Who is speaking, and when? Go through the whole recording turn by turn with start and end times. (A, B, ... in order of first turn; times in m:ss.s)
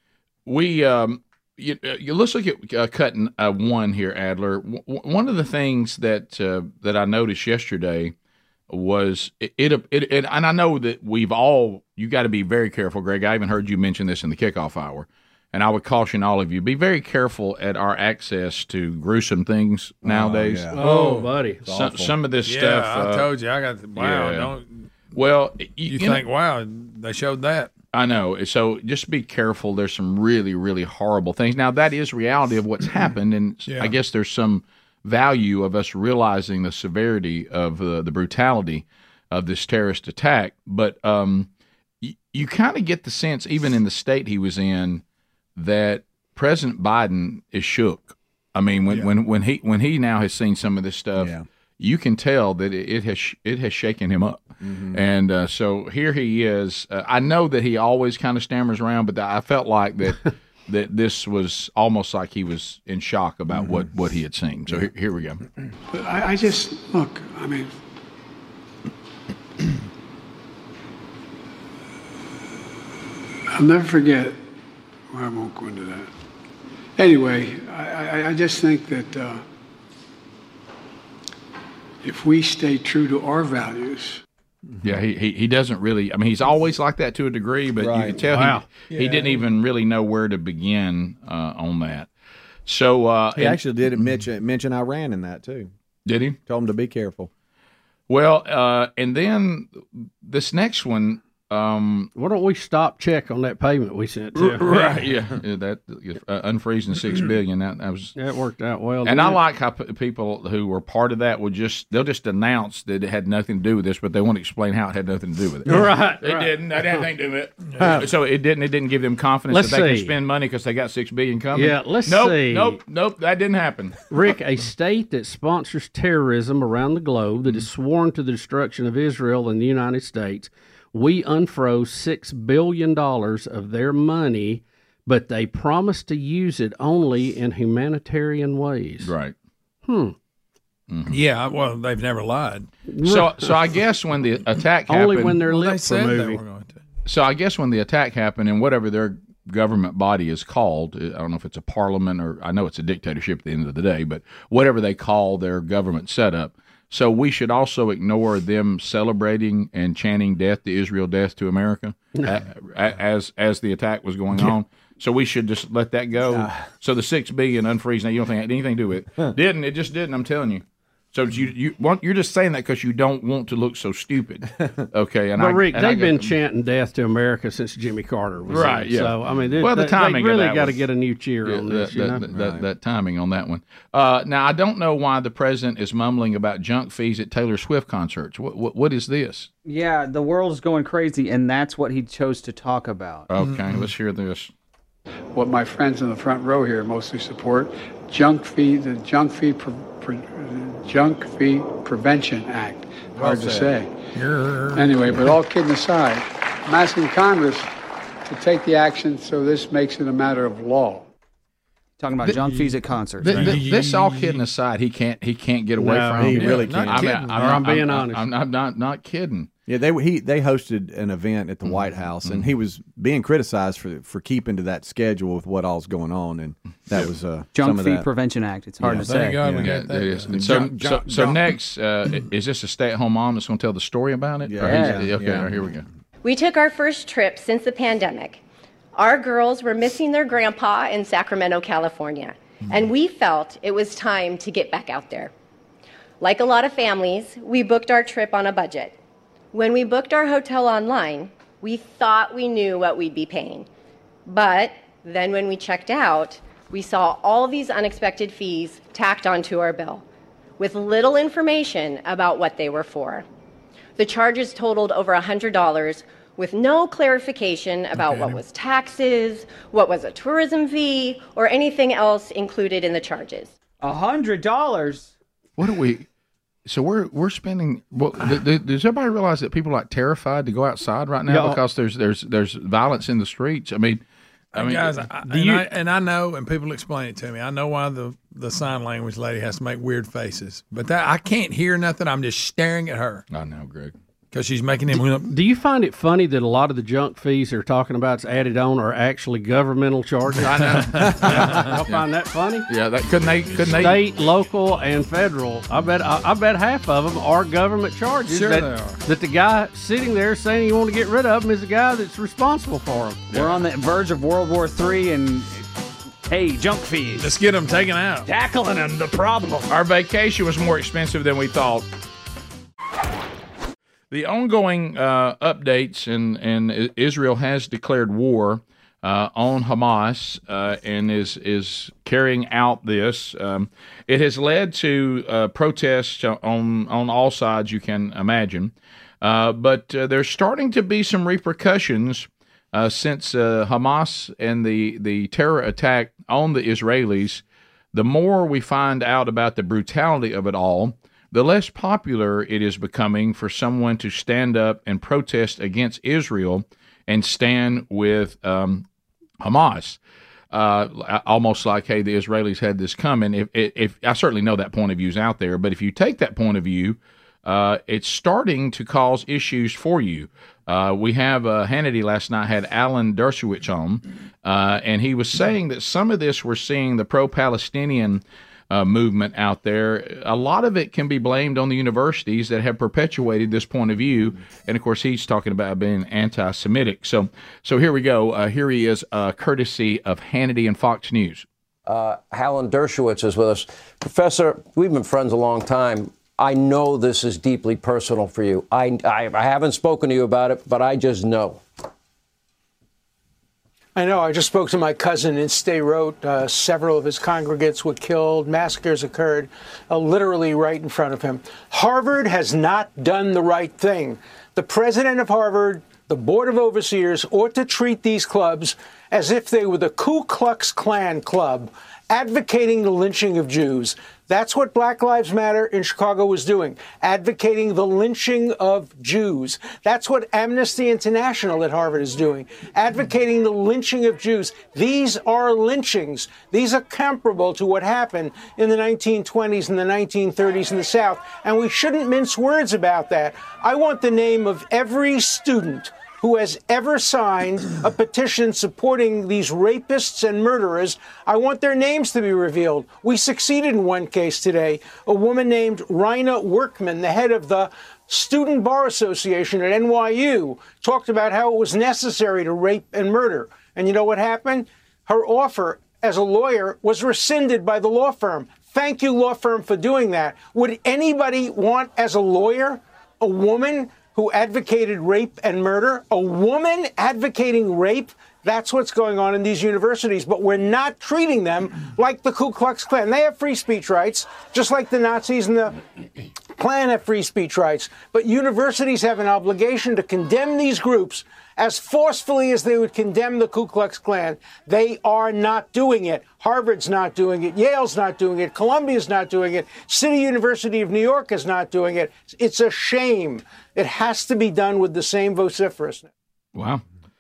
0:00.5-0:08.1 A
0:08.7-0:20.7 A
0:20.0-0:20.8 B
0:20.7-0:21.6 C
0:20.8-0:21.3 D
0:21.6-0:22.1 B
0:21.7-0:23.3 A
0:22.4-0:24.9 D
0:24.0-0:24.5 A
0:25.1-0:26.2 A
0:25.9-0:27.7 D
0:27.9-0:41.5 A
0:33.7-0:34.0 D
0:42.0-0:45.0 A
0:45.6-1:05.4 A
0:51.2-0:51.4 B
0:54.6-0:55.0 B
1:03.5-1:03.9 B
1:05.9-1:07.7 E
1:13.5-1:14.4 E
1:15.1-1:16.1 E
1:17.0-1:19.4 E
1:22.0-1:24.2 E
1:24.8-1:32.1 A
1:27.8-1:28.2 B
1:28.3-1:28.6 C
1:28.9-1:29.4 D
1:32.7-1:33.6 A
1:33.4-1:35.7 B
1:36.1-1:36.4 A
1:36.5-1:37.3 B
1:38.1-1:42.1 A
1:42.2-1:45.0 C
1:44.4-1:48.2 A
1:48.2-1:49.4 C
1:49.0-2:04.0 A
1:55.7-1:57.0 C
1:59.5-2:00.1 C
2:01.5-2:02.8 C
2:04.1-2:19.1 C
2:19.0-2:19.4 A
2:19.9-2:20.2 C
2:20.9-2:21.2 A
2:21.1-2:22.7 D
2:22.9-2:23.5 C
2:23.0-2:25.4 A
2:24.9-2:26.4 C
2:25.4-2:26.8 D
2:27.1-2:56.3 A
2:55.4-3:02.2 C
2:58.5-3:00.8 A
3:01.4-3:09.5 A
3:02.3-3:02.6 B
3:09.7-3:13.3 F
3:13.3-3:14.5 A
3:13.4-3:13.8 D
3:15.3-3:24.0 E
3:23.2-3:23.7 B
3:24.2-3:25.2 D
3:24.7-3:27.7 E
3:28.3-3:31.1 E
3:32.0-3:33.4 F
3:32.2-3:34.4 D
3:33.2-3:39.5 A
3:35.8-3:38.3 C
3:36.2-3:37.2 B
3:36.4-3:37.4 D
3:39.7-3:48.1 B
3:41.7-3:42.5 A
3:47.5-3:49.5 F
3:48.8-3:49.7 B
3:48.9-3:51.3 D
3:49.6-3:55.8 A
3:50.3-3:51.1 B
3:54.5-3:55.5 B
3:54.6-3:55.1 F
3:56.2-3:58.4 G
3:59.0-4:05.3 G
4:06.2-4:09.0 G
4:09.5-4:13.7 G
4:14.3-4:20.0 G
4:20.6-4:23.2 G
4:24.0-4:33.5 G
4:28.0-4:28.4 D
4:33.8-4:35.1 F
4:35.6-4:36.1 A
4:36.7-4:44.0 A
4:41.3-4:41.6 C
4:44.5-4:53.2 D
4:44.6-4:45.1 A
4:45.3-4:45.6 C
4:53.3-4:54.0 A
4:54.3-4:55.3 D
4:55.2-5:02.7 C
5:00.4-5:02.0 A
5:02.7-5:04.0 A
5:03.7-5:13.2 C
5:08.3-5:09.0 D
5:13.3-5:15.7 F
5:16.3-5:17.3 F
5:17.2-5:18.3 D
5:18.3-5:19.7 F
5:19.7-5:21.9 A
5:24.1-5:47.4 A
5:47.9-5:58.8 A
5:59.4-6:00.0 A
6:00.5-6:31.5 A
6:31.9-6:41.6 H
6:44.0-8:05.8 I
8:06.6-8:26.1 I
8:26.6-8:26.8 A